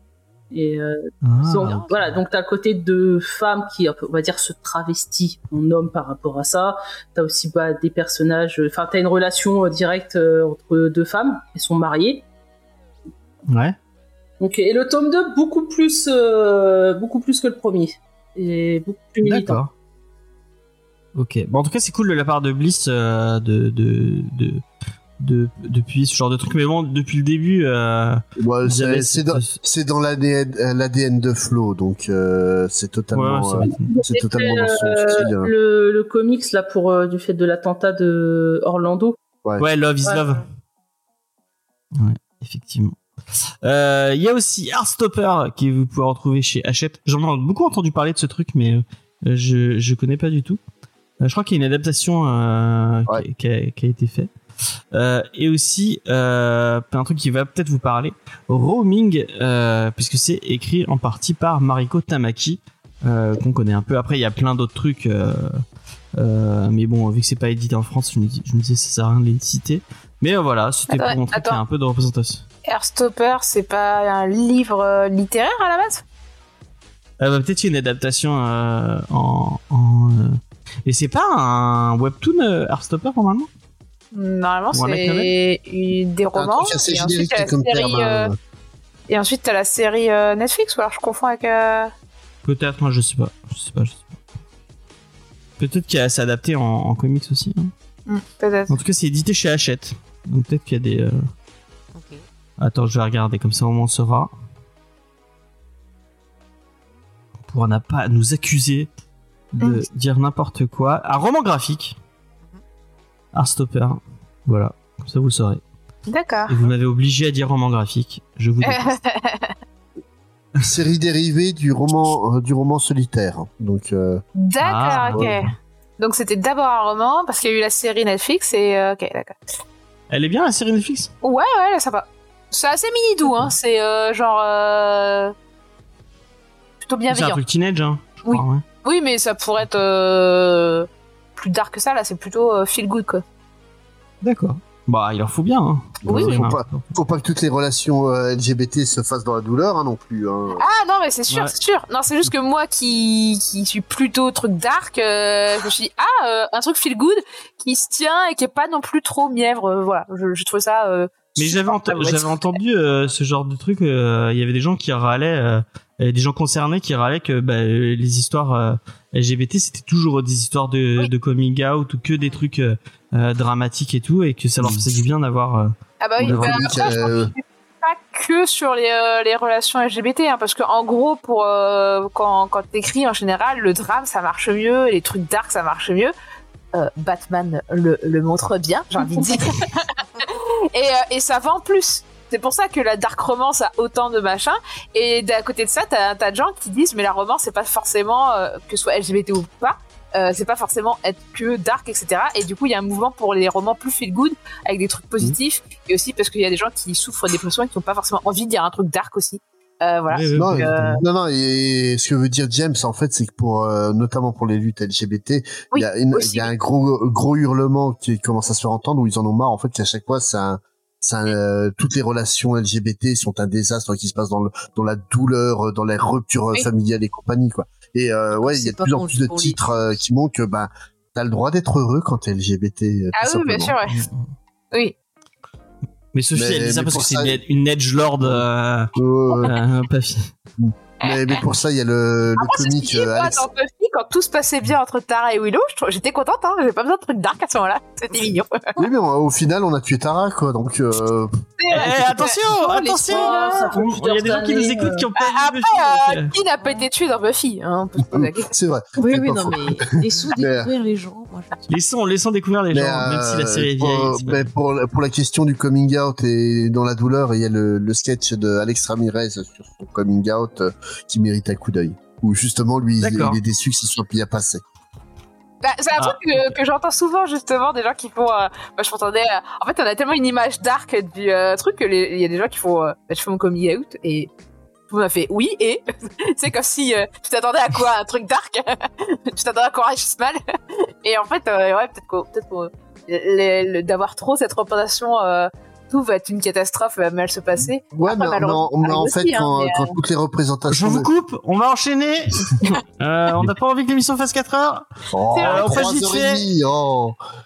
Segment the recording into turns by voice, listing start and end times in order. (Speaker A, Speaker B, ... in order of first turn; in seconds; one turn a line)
Speaker A: 0.5-12.2
Speaker B: 1.2-2.0
Speaker C: 1.4-2.1
Speaker B: 13.5-13.8
Speaker A: 14.4-19.6
Speaker B: 19.2-19.7
Speaker B: 21.1-24.6
Speaker B: 25.2-29.6
Speaker D: 28.4-35.5
Speaker B: 33.1-34.0
Speaker A: 33.7-39.2
Speaker B: 39.6-40.4
Speaker B: 41.9-43.0
Speaker B: 43.6-50.6
Speaker B: 51.2-54.3
Speaker B: 54.9-65.6
Speaker B: 66.2-72.4
Speaker E: 70.9-71.6
Speaker E: 72.7-76.0
Speaker B: 77.2-83.5
Speaker E: 84.1-88.3
Speaker B: 84.7-85.3
Speaker D: 86.3-88.4
Speaker E: 89.1-91.9
Speaker B: 92.4-94.1
Speaker B: 95.6-97.7
Speaker E: 98.1-98.8
Speaker B: 98.7-101.2
Speaker C: 101.9-102.2
Speaker B: 102.6-104.3
Speaker B: 107.5-108.9
Speaker B: 109.5-112.0
Speaker B: 113.3-115.6
Speaker E: 116.1-116.6
Speaker B: 116.5-118.9
Speaker E: 118.6-119.5
Speaker D: 120.6-124.2
Speaker E: 124.4-129.3
Speaker B: 124.6-125.4
Speaker B: 130.1-131.1
Speaker E: 131.2-135.3
Speaker E: 136.8-137.4
Speaker B: 137.1-138.6
Speaker E: 138.2-143.2
Speaker B: 144.2-146.9
Speaker D: 146.0-150.6
Speaker E: 146.1-146.4
Speaker E: 150.6-162.6
Speaker B: 161.3-177.1
Speaker D: 174.6-174.9
Speaker E: 176.0-186.1
Speaker D: 176.2-177.3
Speaker E: 186.7-211.0
Speaker B: 210.1-211.0
Speaker D: 210.3-233.7
Speaker E: 215.7-216.5
Speaker C: 228.3-229.7
Speaker E: 233.1-234.1
Speaker B: 233.9-234.2
Speaker B: 236.1-240.3
Speaker D: 236.3-237.4
Speaker D: 238.9-239.6
Speaker D: 240.6-243.4
Speaker E: 241.0-241.4
Speaker E: 242.4-248.8
Speaker D: 248.8-251.9
Speaker E: 251.6-253.6
Speaker B: 251.7-256.3
Speaker A: 252.8-255.1
Speaker E: 255.2-258.5
Speaker C: 256.6-256.9
Speaker D: 258.1-260.7
Speaker C: 259.0-261.7
Speaker B: 261.7-264.5
Speaker D: 262.7-274.6
Speaker B: 273.0-273.4
Speaker E: 275.6-284.3
Speaker B: 275.9-276.5
Speaker E: 284.9-299.9
Speaker D: 297.9-301.1
Speaker B: 300.7-304.9
Speaker D: 305.1-307.2
Speaker E: 305.3-306.2
Speaker B: 305.4-306.4